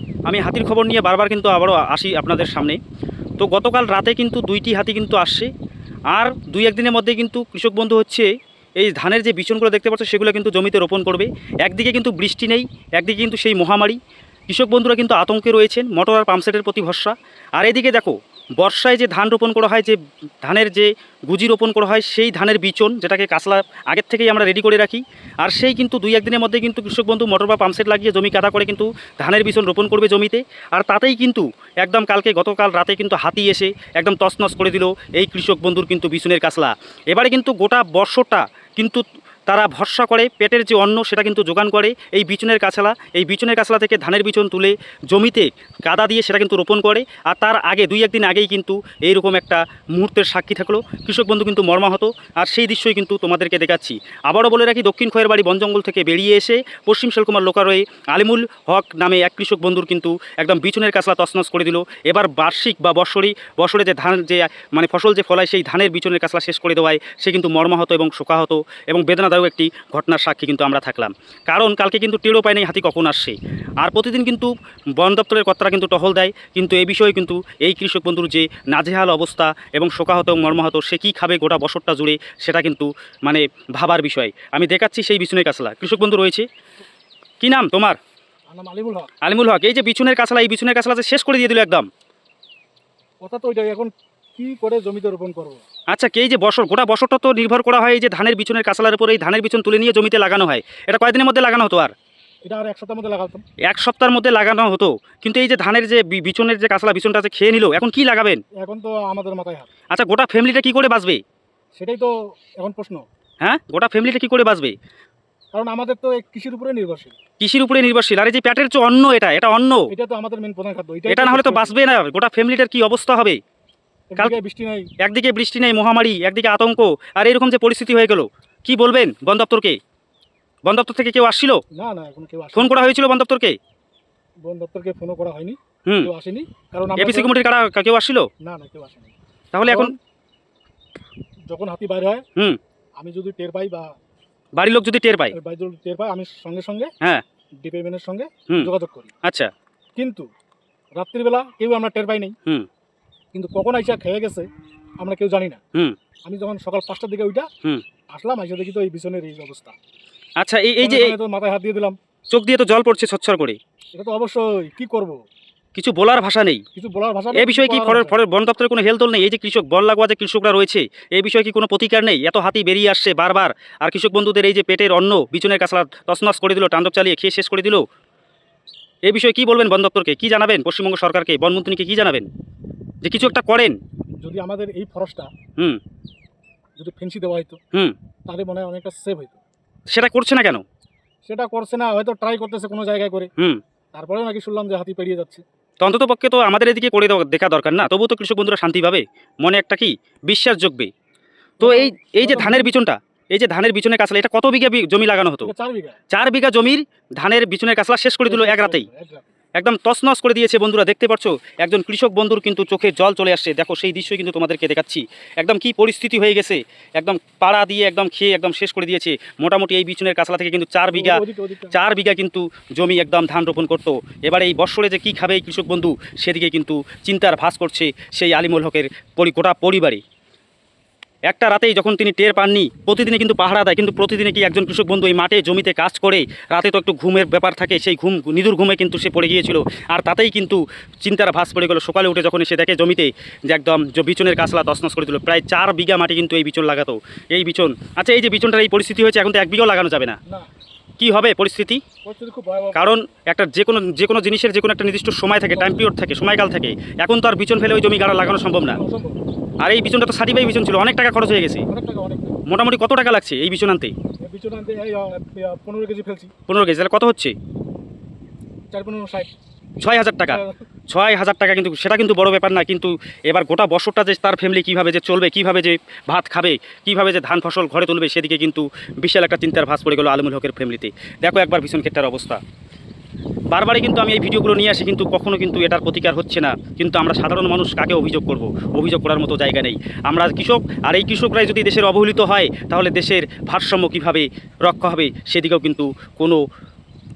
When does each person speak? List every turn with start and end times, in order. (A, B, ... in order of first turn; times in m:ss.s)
0:00.3-0:02.8 A
0:03.4-0:05.5 A
0:06.1-1:26.5 A
1:27.4-1:28.0 A
1:28.5-1:29.1 B
1:29.2-1:31.9 A
1:33.2-1:35.6 B
1:35.9-1:41.9 A
1:42.4-1:43.4 B
1:43.7-1:48.4 A
1:48.6-1:49.7 B
1:49.9-1:51.2 A
1:51.8-1:53.0 B
1:53.4-1:54.7 A
1:55.5-1:57.2 B
1:57.4-1:59.9 A
1:59.9-2:01.8 B
2:01.1-2:03.4 A
2:04.1-2:04.9 B
2:05.0-2:09.8 A
2:10.7-2:11.6 A
2:11.7-2:12.7 B
2:12.6-2:13.6 A
2:14.4-2:17.3 B
2:17.0-2:18.3 A
2:18.4-2:20.0 B
2:19.5-2:19.9 A
2:21.5-2:22.2 B
2:23.0-2:23.9 B
2:24.6-2:25.3 A
2:25.3-2:26.9 B
2:27.6-2:29.1 B
2:29.2-2:29.5 A
2:30.0-2:30.3 B
2:31.0-2:32.4 B
2:33.3-2:34.5 B
2:35.0-2:35.6 B
2:36.3-2:37.5 B
2:38.1-2:39.8 B
2:40.4-2:41.1 A
2:40.8-2:42.0 B
2:42.3-2:43.6 A
2:44.0-2:45.2 B
2:45.8-2:46.6 A
2:46.8-2:48.2 B
2:47.3-2:57.8 A
2:59.0-3:02.3 A
3:03.0-3:03.8 A
3:04.2-3:05.3 B
3:06.8-3:07.6 B
3:08.3-3:09.4 B
3:09.9-3:10.6 A
3:11.2-3:13.3 B
3:13.9-3:15.4 B
3:15.8-3:20.9 A
3:21.6-3:22.7 B
3:21.6-3:25.5 A
3:25.4-3:26.0 B
3:26.1-3:28.9 A
3:28.3-3:29.3 B
3:29.6-3:50.0 A
3:40.9-3:41.8 B
3:51.3-4:10.2 A
4:11.0-4:11.8 A
4:12.0-4:12.9 B
4:12.8-4:18.8 A
4:15.5-4:15.8 B
4:18.7-4:19.2 B
4:19.6-4:21.7 A
4:21.7-4:22.4 B
4:22.5-4:23.9 A
4:24.2-4:26.3 B
4:26.5-4:27.4 A
4:28.7-4:29.3 B
4:29.8-4:42.4 A
4:30.3-4:30.5 B
4:43.5-4:56.4 A